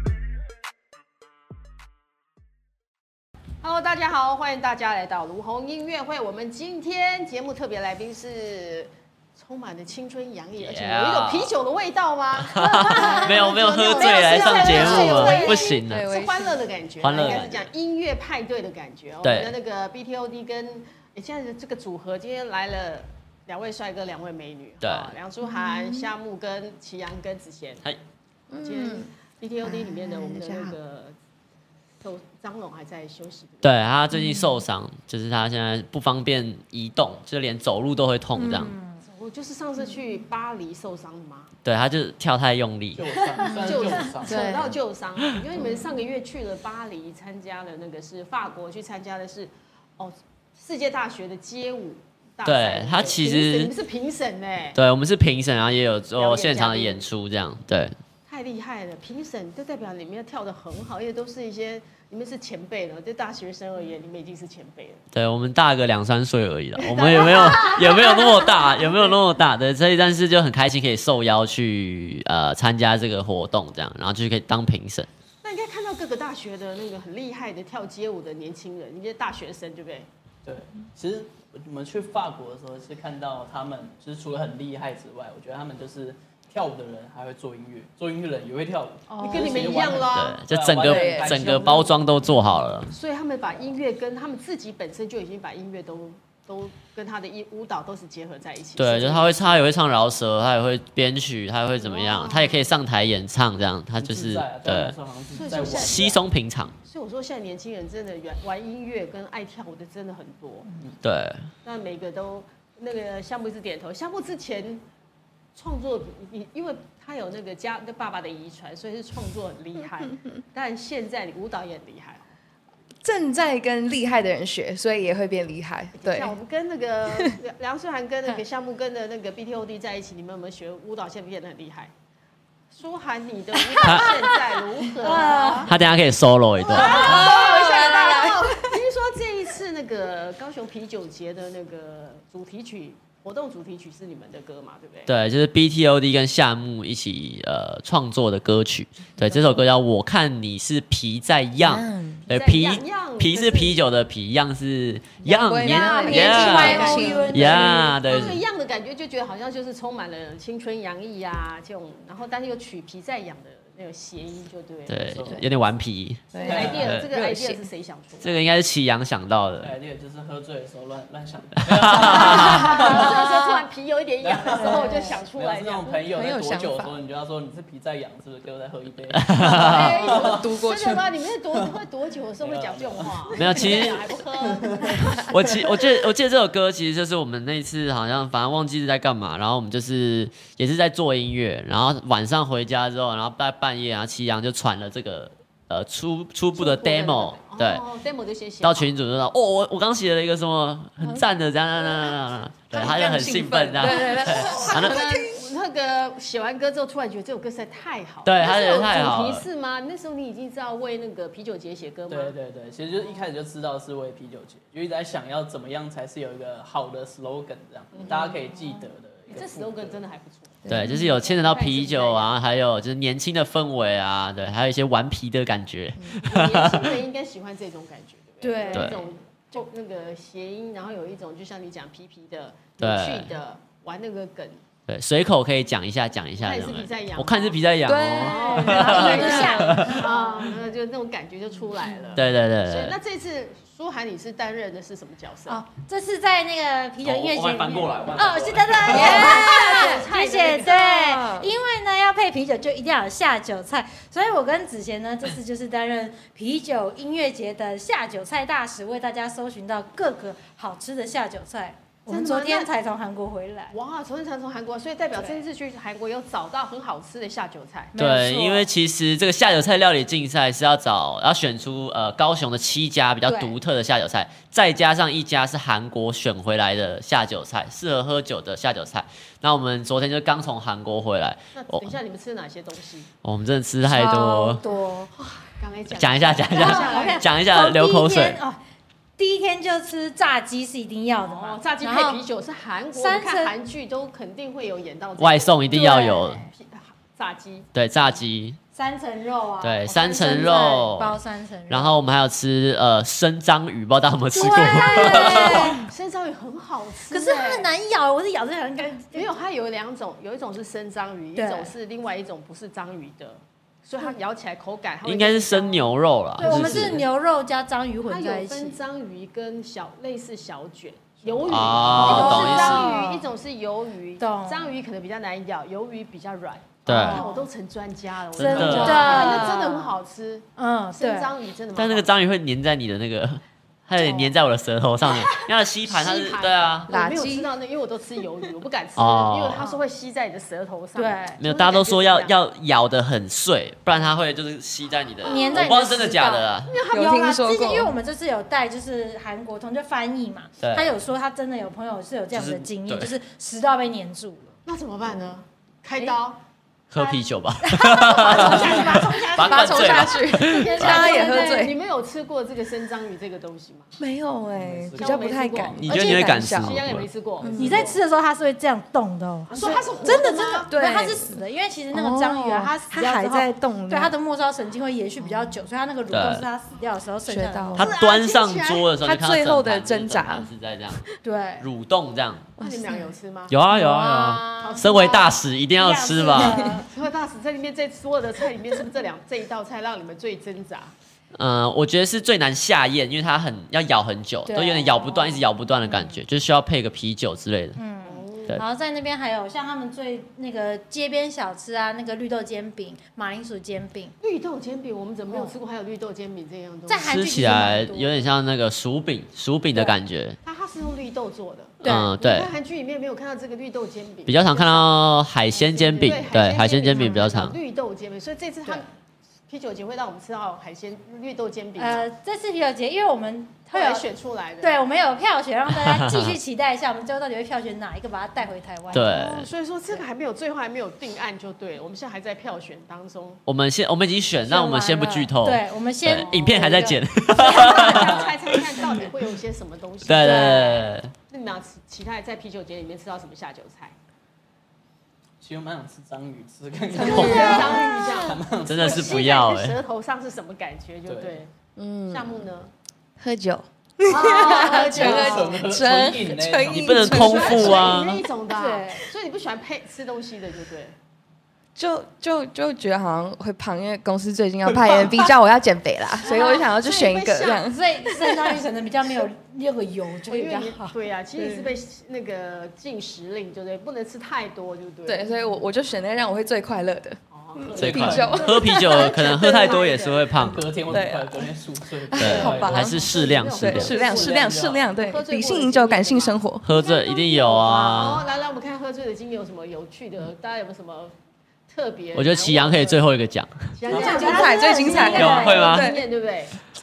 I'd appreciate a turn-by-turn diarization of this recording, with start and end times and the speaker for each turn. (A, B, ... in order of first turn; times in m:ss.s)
0:03.6-0:27.8 A
0:10.6-0:11.5 B
0:12.3-0:16.0 B
0:12.7-0:15.8 C
0:14.6-0:16.6 D
0:17.0-0:17.7 B
0:19.2-0:19.5 B
0:24.8-0:25.1 B
0:25.4-0:26.1 D
0:28.5-0:29.1 D
0:28.5-0:31.1 A
0:29.6-0:30.8 D
0:32.0-0:33.7 A
0:33.6-0:38.7 B
0:34.1-0:34.6 D
0:38.4-0:38.7 D
0:38.4-0:39.0 C
0:39.0-0:41.5 A
0:41.6-0:43.1 B
0:42.9-0:44.6 E
0:43.5-0:44.7 D
0:43.6-0:54.8 A
0:52.4-0:53.7 B
0:54.8-0:58.0 B
0:56.2-0:57.0 A
0:58.3-1:05.0 A
1:05.1-1:15.1 B
1:06.8-1:08.3 A
1:07.5-1:07.8 C
1:15.4-1:20.1 A
1:20.4-1:32.0 E
1:29.1-1:30.0 C
1:29.2-1:30.4 A
1:30.0-1:32.9 B
1:30.8-1:31.4 D
1:31.3-1:32.0 A
1:32.9-1:39.6 A
1:38.8-1:45.0 B
1:41.8-1:42.6 A
1:44.0-1:46.2 E
1:45.3-1:46.0 A
1:45.5-1:46.7 B
1:46.8-1:50.7 A
1:51.0-1:51.5 B
1:51.6-1:54.8 A
1:55.5-2:02.3 A
2:03.0-2:06.4 D
2:05.9-2:11.9 A
2:12.7-2:15.7 A
2:13.8-2:14.1 B
2:15.0-2:15.7 D
2:15.0-2:15.7 C
2:15.7-2:17.3 B
2:16.7-2:18.8 D
2:16.7-2:25.1 A
2:25.1-2:38.4 B
2:31.6-2:32.2 D
2:32.3-2:33.8 A
2:35.2-2:37.7 D
2:35.6-2:38.0 C
2:36.0-2:45.4 A
2:44.9-2:47.0 B
2:45.1-2:45.4 E
2:46.3-2:47.6 D
2:46.4-2:48.4 A
2:46.4-2:46.9 E
2:48.2-2:49.7 B
2:49.6-2:53.3 E
2:51.6-2:52.8 B
2:52.0-2:56.1 A
2:52.4-2:53.6 D
2:54.2-3:00.8 E
2:54.6-2:55.2 C
2:56.1-2:56.9 D
2:59.1-3:00.0 B
2:59.4-3:05.2 A
2:59.4-3:01.0 D
2:59.7-3:00.2 C
3:02.4-3:03.6 E
3:03.4-3:04.0 B
3:04.4-3:05.2 E
3:05.0-3:17.8 B
3:16.5-3:18.9 A
3:18.6-3:25.0 B
3:22.7-3:25.5 D
3:23.8-3:32.3 A
3:28.2-3:29.4 B
3:32.1-3:40.0 E
3:37.9-3:38.3 A
3:38.1-3:38.8 C
3:39.3-3:42.4 A
3:40.6-3:41.0 D
3:40.7-3:47.0 B
3:40.8-3:41.1 C
3:46.2-3:54.6 A
3:48.4-3:49.6 C
3:48.7-3:49.0 B
3:52.8-3:53.3 B
3:54.9-4:00.0 B
3:56.4-3:57.6 A
3:57.8-4:00.0 D
3:58.1-4:05.6 A
3:58.2-4:00.5 C
4:02.2-4:03.0 B
4:05.5-4:23.7 C
4:07.0-4:09.3 B
4:08.9-4:10.1 D
4:08.9-4:10.8 A
4:10.6-4:11.5 D
4:22.0-4:22.7 A
4:23.7-4:27.9 A
4:25.2-4:25.4 C
4:27.9-4:28.7 C
4:28.0-4:41.9 B
4:33.2-4:33.6 C
4:41.5-4:43.1 A
4:43.2-4:44.6 B
4:43.8-4:45.1 C
4:45.6-4:47.3 A
4:45.9-4:48.4 B
4:46.5-4:48.6 C
4:49.2-4:52.2 C
4:51.2-4:57.7 A
4:52.9-4:53.5 C
4:55.2-4:56.5 B
4:55.7-4:56.5 C
4:57.7-4:58.6 B
4:58.7-5:01.9 C
4:59.6-5:01.2 B
5:00.2-5:00.5 A
5:01.7-5:05.8 B
5:04.3-5:05.9 C
5:04.9-5:07.7 A
5:07.1-5:09.3 C
5:09.1-5:17.0 A
5:11.4-5:11.7 C
5:15.0-5:17.0 B
5:16.4-5:18.8 C
5:18.0-5:32.1 A
5:21.3-5:22.0 E
5:21.4-5:22.8 B
5:21.9-5:23.2 C
5:24.2-5:24.7 C
5:26.8-5:27.2 B
5:26.8-5:27.5 C
5:28.3-5:29.5 B
5:28.4-5:30.0 C
5:30.6-5:31.3 C
5:31.8-5:36.9 B
5:34.0-5:34.4 C
5:35.8-5:42.4 A
5:36.9-5:37.5 D
5:39.0-5:39.6 B
5:39.6-5:39.8 C
5:41.0-5:41.4 C
5:41.4-5:46.7 B
5:45.2-5:45.9 A
5:45.2-5:54.6 C
5:46.6-5:47.4 A
5:46.9-5:47.9 D
5:50.6-5:50.9 B
5:52.3-5:53.1 B
5:54.6-5:56.4 A
5:56.9-6:01.1 B
5:57.6-5:59.8 C
5:58.1-6:03.9 A
5:58.3-6:01.8 D
6:00.5-6:01.7 C
6:04.0-6:06.8 D
6:04.5-6:06.0 E
6:05.0-6:08.0 A
6:05.8-6:07.1 B
6:07.4-6:07.9 D
6:07.6-6:17.9 C
6:09.5-6:10.7 A
6:10.7-6:14.1 D
6:16.1-6:16.4 B
6:17.2-6:18.0 D
6:17.8-6:18.9 A
6:17.8-6:21.0 B
6:18.9-6:20.5 D
6:21.2-6:21.7 C
6:21.6-6:22.5 B
6:22.6-6:23.1 D
6:22.6-6:23.5 A
6:23.5-6:26.7 B
6:23.7-6:26.9 C
6:24.6-6:25.3 A
6:26.9-6:30.9 A
6:31.3-6:37.8 B
6:34.4-6:36.2 C
6:37.8-6:44.1 C
6:38.0-6:38.6 A
6:44.2-6:47.2 A
6:45.3-6:45.5 C
6:46.9-6:48.1 C
6:47.0-6:50.4 B
6:50.4-6:58.9 A
6:51.8-6:52.1 C
6:51.8-6:52.5 B
6:54.3-6:57.6 B
6:57.0-6:57.3 C
6:59.5-7:02.1 A
7:01.8-7:04.0 C
7:03.7-7:04.8 A
7:04.6-7:09.2 C
7:05.7-7:06.4 B
7:08.9-7:09.5 B
7:08.9-7:13.4 A
7:13.4-7:18.6 B
7:14.4-7:18.2 C
7:17.3-7:23.9 A
7:18.0-7:18.2 E
7:20.0-7:21.1 B
7:20.2-7:20.9 C
7:25.4-7:29.4 E
7:26.9-7:28.1 D
7:26.9-7:31.5 A
7:27.0-7:28.3 C
7:28.6-7:29.8 B
7:31.1-7:31.4 E
7:31.8-7:32.4 D
7:32.1-7:32.7 A
7:33.2-7:38.0 D
7:34.1-7:35.4 C
7:34.1-7:35.5 A
7:34.7-7:37.9 E
7:36.7-7:38.2 B
7:37.1-7:40.9 A
7:38.5-7:39.0 C
7:41.7-7:48.6 D
7:44.8-7:45.2 E
7:46.2-7:47.7 A
7:47.7-7:51.0 C
7:50.3-7:55.3 A
7:51.4-7:51.7 D
7:55.0-7:59.8 D
7:57.3-8:00.4 A
7:57.8-7:58.4 E
7:57.8-8:00.7 B
8:00.4-8:03.0 E
8:00.9-8:01.5 D
8:02.1-8:03.0 D
8:02.2-8:03.9 B
8:02.3-8:11.1 A
8:03.6-8:06.7 D
8:03.7-8:04.9 E
8:06.6-8:08.2 B
8:07.4-8:08.1 C
8:11.7-8:13.1 A
8:12.1-8:13.7 B
8:13.7-8:16.6 A
8:13.9-8:15.8 C
8:13.9-8:16.0 D
8:15.1-8:15.9 B